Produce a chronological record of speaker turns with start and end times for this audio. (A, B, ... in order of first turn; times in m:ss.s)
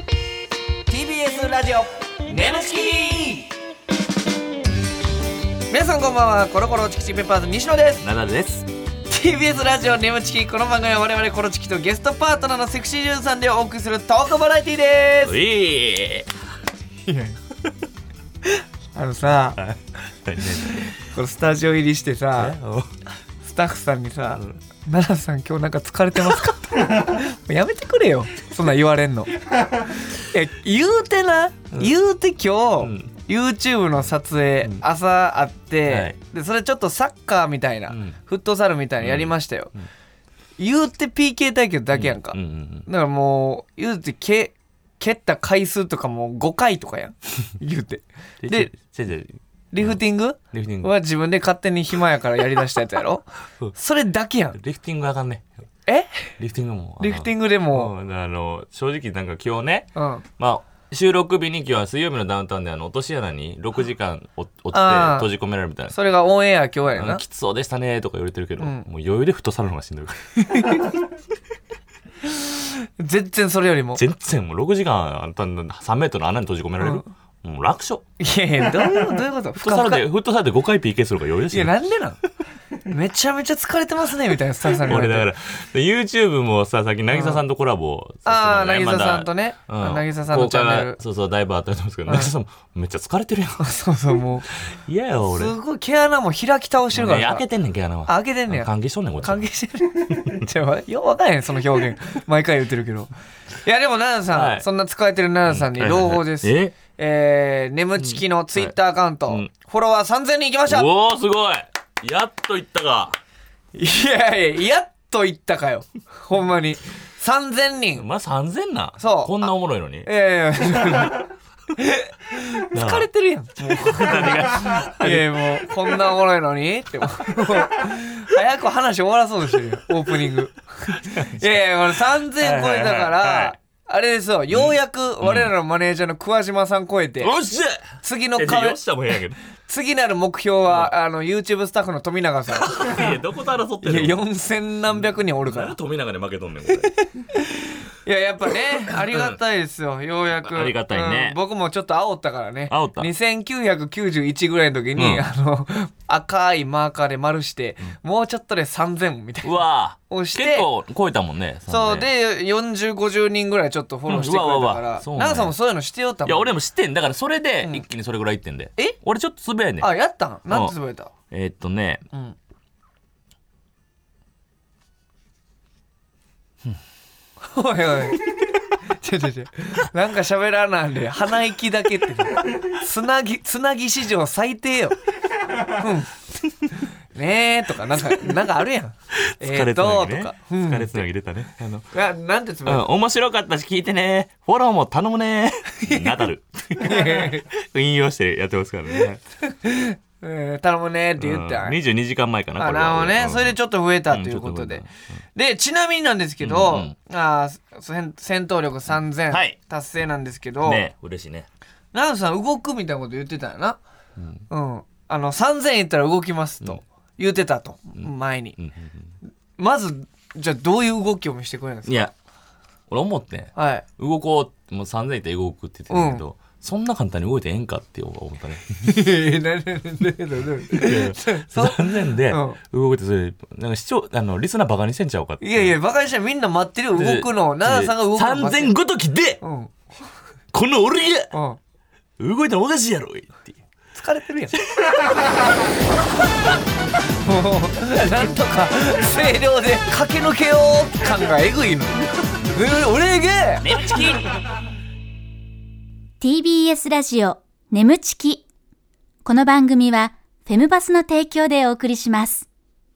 0:00.9-0:03.5 A
0:05.7-0:08.0 A
0:08.0-0:08.6 B
0:09.1-0:15.4 A
0:15.2-0:16.3 B
0:17.0-0:17.4 A
0:18.5-0:19.6 A
0:19.6-0:20.9 B
0:21.0-0:22.6 A
0:22.4-0:22.9 B
0:23.4-0:29.3 A
0:30.3-0:39.7 A
0:32.8-0:33.1 B
0:35.9-0:36.2 B
0:37.9-0:38.2 B
0:39.0-0:39.9 B
0:40.6-0:48.7 A
0:41.9-0:42.9 B
0:48.4-0:50.0 B
0:49.7-0:54.6 A
0:50.5-0:50.9 B
0:54.5-0:55.5 B
0:55.9-0:56.4 A
0:56.4-1:05.9 B
0:57.0-0:57.9 A
0:59.9-1:00.2 A
1:04.7-1:05.3 A
1:05.9-1:07.2 A
1:06.9-1:10.7 B
1:08.6-1:08.9 A
1:10.4-1:10.9 A
1:12.2-1:14.0 A
1:14.0-1:18.0 B
1:16.8-1:17.0 A
1:18.2-1:20.0 A
1:19.6-1:21.7 B
1:21.5-1:22.2 A
1:22.8-1:25.3 A
1:24.8-1:33.7 B
1:27.1-1:27.4 A
1:28.2-1:31.0 A
1:33.6-1:34.5 A
1:34.7-1:35.5 B
1:35.2-1:37.4 A
1:36.9-1:39.4 B
1:38.0-1:43.1 A
1:43.6-1:50.9 A
1:44.3-1:44.6 B
1:45.5-1:46.7 B
1:48.0-1:48.7 B
1:50.7-1:53.2 B
1:53.7-1:58.0 A
1:58.0-2:00.1 B
1:59.0-1:59.5 A
2:00.0-2:17.3 A
2:02.7-2:03.1 B
2:03.8-2:05.3 B
2:11.1-2:11.5 B
2:12.4-2:13.5 B
2:14.5-2:15.5 B
2:17.2-2:19.4 B
2:18.0-2:18.8 A
2:19.7-2:23.1 A
2:20.7-2:20.9 B
2:22.6-2:24.2 B
2:23.8-2:25.7 A
2:24.9-2:26.9 B
2:27.3-2:40.7 A
2:28.9-2:29.4 B
2:30.4-2:31.4 B
2:32.7-2:33.1 B
2:35.0-2:35.2 B
2:39.4-2:42.1 B
2:41.7-2:46.5 A
2:44.1-2:45.5 B
2:46.2-2:49.9 B
2:49.8-2:51.1 A
2:50.5-2:50.7 B
2:51.3-2:52.0 B
2:57.5-2:58.2 A
2:59.0-3:05.0 A
3:05.7-3:06.1 A
3:07.1-3:11.1 A
3:09.4-3:11.8 B
3:11.9-3:12.9 A
3:12.6-3:19.2 B
3:16.8-3:17.4 A
3:19.5-3:21.8 A
3:21.2-3:23.6 B
3:22.6-3:30.8 A
3:24.1-3:24.9 B
3:26.4-3:26.9 B
3:29.3-3:29.6 B
3:30.6-3:31.5 B
3:31.9-3:33.8 A
3:34.2-3:34.4 B
3:34.5-3:38.6 A
3:38.0-3:39.1 B
3:39.6-3:42.1 A
3:41.8-3:42.1 B
3:42.9-3:48.8 B
3:43.5-3:43.8 A
3:45.9-3:46.2 A
3:48.8-3:52.6 A
3:50.7-3:55.8 B
3:55.4-3:58.7 A
3:57.0-3:59.4 B
3:59.4-3:59.7 A
4:00.5-4:01.3 B
4:01.3-4:01.6 A
4:02.2-4:03.6 B
4:03.9-4:04.6 A
4:04.7-4:05.2 B
4:07.2-4:12.0 A
4:12.5-4:13.7 A
4:13.6-4:14.2 B
4:16.2-4:18.4 C
4:19.2-4:22.4 C